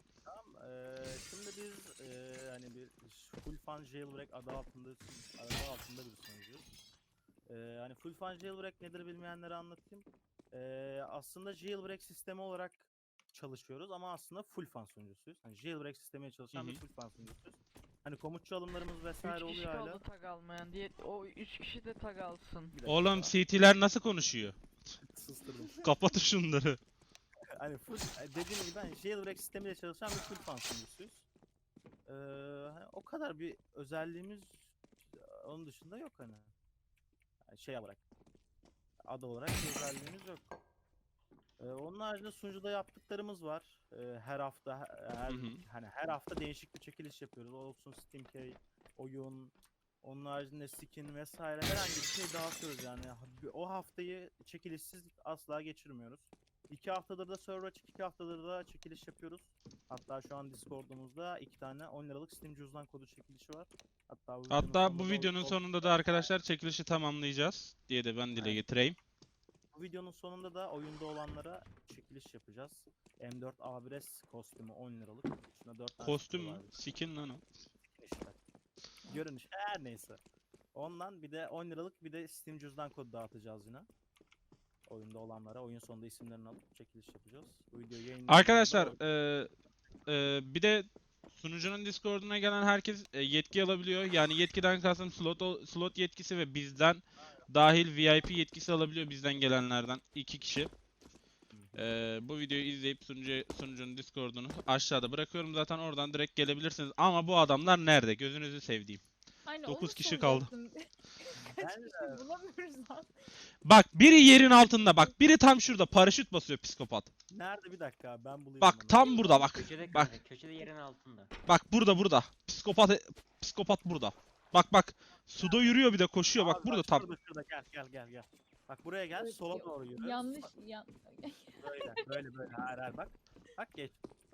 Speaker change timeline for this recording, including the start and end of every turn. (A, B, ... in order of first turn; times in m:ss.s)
0:00.3-0:06.7 A
0:07.5-0:20.0 A
0:16.5-0:16.8 B
0:19.2-0:22.8 C
0:22.7-0:23.3 A
0:22.9-0:24.6 B
0:25.0-0:25.9 A
0:25.8-0:26.8 B
0:27.6-0:31.3 A
0:32.1-0:36.5 A
0:37.5-0:38.0 A
0:39.0-0:40.4 A
0:41.6-1:06.3 A
0:45.3-0:45.6 B
1:04.5-1:09.0 B
1:08.3-1:08.6 A
1:09.7-1:16.7 A
1:16.0-1:17.4 B
1:17.8-1:18.4 A
1:19.1-1:20.2 A
1:20.7-1:23.9 A
1:24.9-1:29.0 A
1:28.3-1:29.5 B
1:30.1-1:40.7 B
1:37.2-1:37.5 A
1:41.5-1:41.9 A
1:41.8-1:49.0 B
1:49.5-1:53.3 D
1:49.7-1:50.5 B
1:51.5-1:52.2 A
1:53.6-1:57.1 B
1:54.4-1:55.2 D
1:57.3-1:59.2 A
1:58.6-2:00.1 B
1:59.0-1:59.5 D
1:59.4-2:01.3 E
2:01.5-2:07.1 B
2:05.4-2:10.5 A
2:09.1-2:12.2 D
2:11.6-2:14.0 A